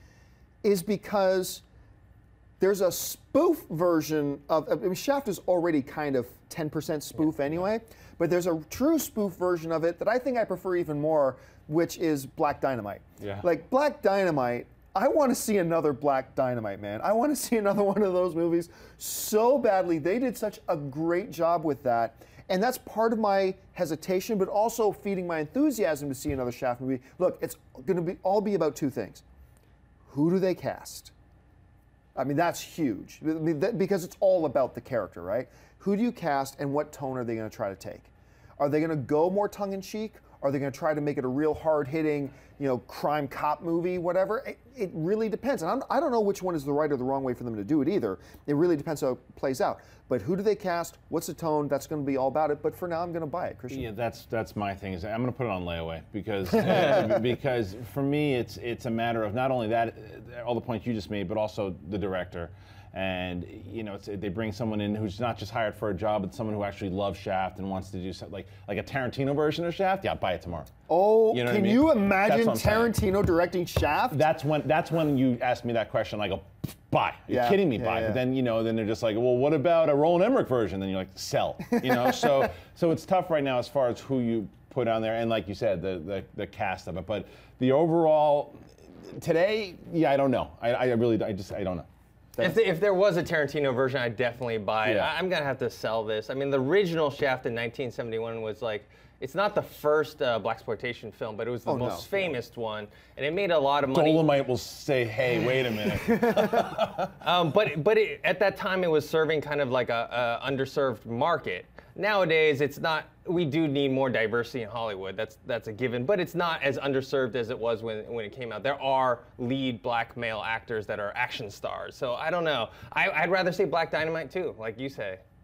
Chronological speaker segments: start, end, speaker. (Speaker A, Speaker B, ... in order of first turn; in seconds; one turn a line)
Speaker A: 0.6-1.6
Speaker A: 2.6-29.2
Speaker A: 30.1-31.1
Speaker A: 32.1-53.9
Speaker B: 53.7-70.7
Speaker A: 70.9-74.2
Speaker B: 71.3-72.9
Speaker B: 74.1-91.9
Speaker A: 77.3-78.2
Speaker A: 92.3-92.6
Speaker C: 92.4-104.2
Speaker B: 94.8-95.1
Speaker A: 101.6-102.1
Speaker B: 103.9-107.1
Speaker C: 105.9-106.6
Speaker C: 107.2-125.2